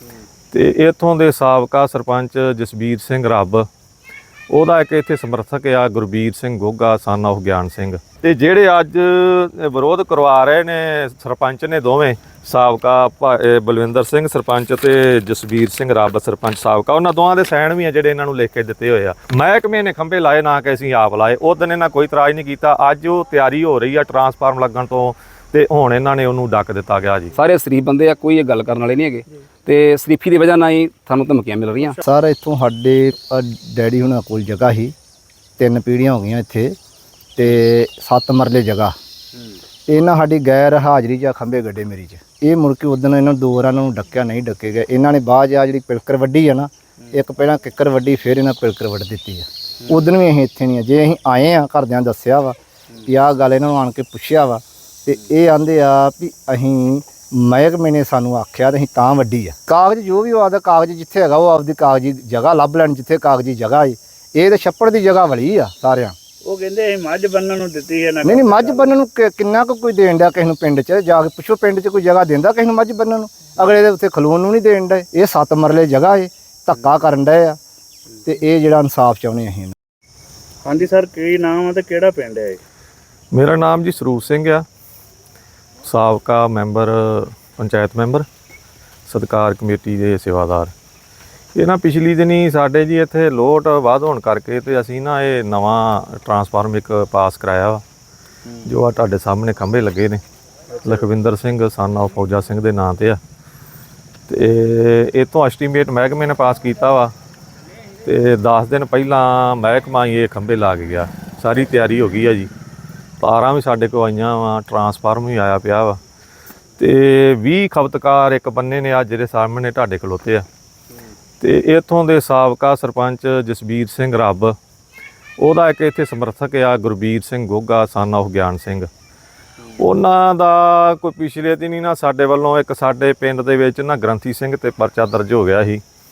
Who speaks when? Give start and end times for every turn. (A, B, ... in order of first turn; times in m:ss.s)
0:00.5-0:03.7 A
0:04.5-0:27.4 A
0:27.3-0:32.0 B
0:32.0-0:34.9 C
0:35.6-0:36.8 C
0:37.4-0:39.0 C
0:39.9-0:52.6 C
0:53.1-1:06.2 C
1:06.5-1:08.9 D
1:08.2-1:17.6 C
1:18.2-1:19.7 C
1:20.6-1:22.6 D
1:23.3-1:24.6 A
1:25.8-1:28.2 A
1:29.1-1:30.7 A
1:31.6-1:37.8 A
1:38.6-1:40.2 A
1:40.7-1:41.0 D
1:40.8-1:43.2 A
1:44.3-1:47.1 A
1:48.0-1:52.5 A
1:53.2-1:56.0 A
1:56.8-2:00.4 A
2:01.4-2:04.6 A
2:05.4-2:08.9 A
2:09.8-2:15.8 A